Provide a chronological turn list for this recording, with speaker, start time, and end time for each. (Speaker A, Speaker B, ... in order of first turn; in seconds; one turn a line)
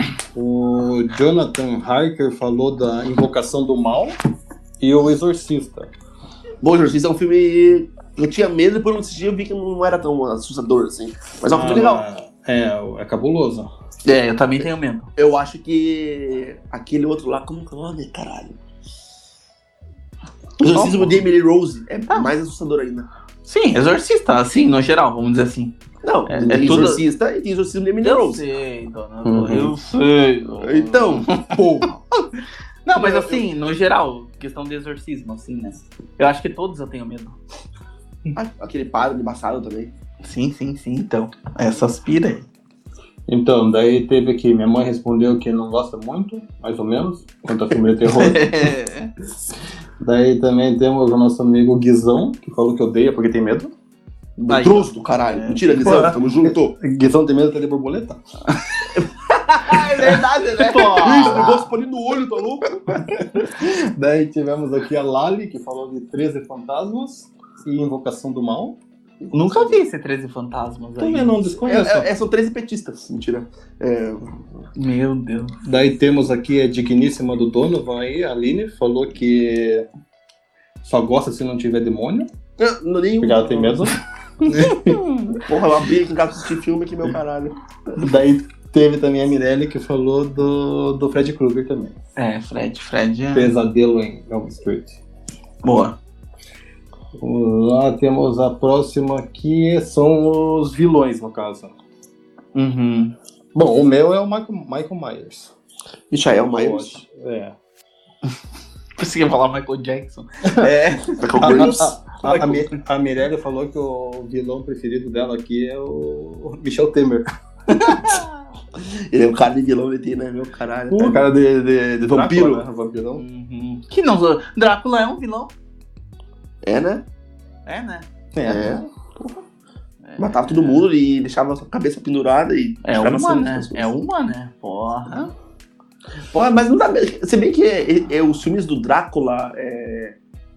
Speaker A: 0.3-4.2
Speaker A: 4.8-5.9
Speaker B: 6.6-12.0
Speaker A: 11.5-13.7
Speaker C: 14.1-15.1
Speaker B: 15.2-18.6
Speaker B: 20.6-23.1
Speaker C: 20.7-21.2
Speaker C: 23.4-25.7
Speaker B: 26.0-28.4
Speaker C: 26.3-27.0
Speaker A: 26.4-27.0
Speaker C: 28.0-32.2
Speaker A: 29.2-29.7
Speaker B: 30.6-31.3
Speaker A: 31.5-31.9
Speaker C: 32.8-37.4
Speaker B: 32.9-33.4
Speaker B: 38.4-39.9
Speaker C: 40.2-42.5
Speaker A: 43.3-48.7
Speaker C: 48.0-49.1
Speaker A: 50.0-53.7
Speaker B: 54.4-56.7
Speaker C: 54.5-56.1
Speaker A: 55.8-58.2
Speaker C: 58.5-58.8
Speaker B: 58.9-63.3
Speaker C: 59.6-61.7
Speaker A: 59.7-61.5
Speaker A: 63.1-68.8
Speaker B: 69.2-69.8
Speaker C: 69.3-71.3
Speaker A: 71.0-72.1
Speaker B: 71.6-74.6
Speaker C: 74.8-75.6
Speaker A: 75.6-79.8
Speaker A: 80.8-82.3
Speaker B: 82.6-83.9
Speaker A: 83.2-85.0
Speaker C: 84.4-85.4
Speaker B: 85.5-87.6
Speaker A: 88.0-91.9
Speaker C: 92.2-93.5
Speaker A: 93.3-95.0
Speaker C: 95.6-95.9
Speaker A: 97.2-101.7
Speaker C: 102.5-103.1
Speaker A: 103.5-105.5
Speaker B: 106.1-107.0
Speaker A: 106.5-107.5
Speaker C: 109.0-112.8
Speaker B: 111.2-112.0
Speaker A: 111.4-117.2
Speaker C: 117.7-118.4
Speaker A: 117.8-118.2
Speaker B: 118.7-121.3
Speaker A: 120.9-123.2
Speaker B: 122.0-122.6
Speaker C: 123.2-125.5
Speaker B: 126.6-127.0
Speaker C: 127.7-128.1
Speaker A: 128.3-128.8
Speaker B: 128.4-129.4
Speaker C: 130.0-130.9
Speaker B: 130.2-133.9
Speaker C: 132.8-135.3
Speaker B: 136.3-140.2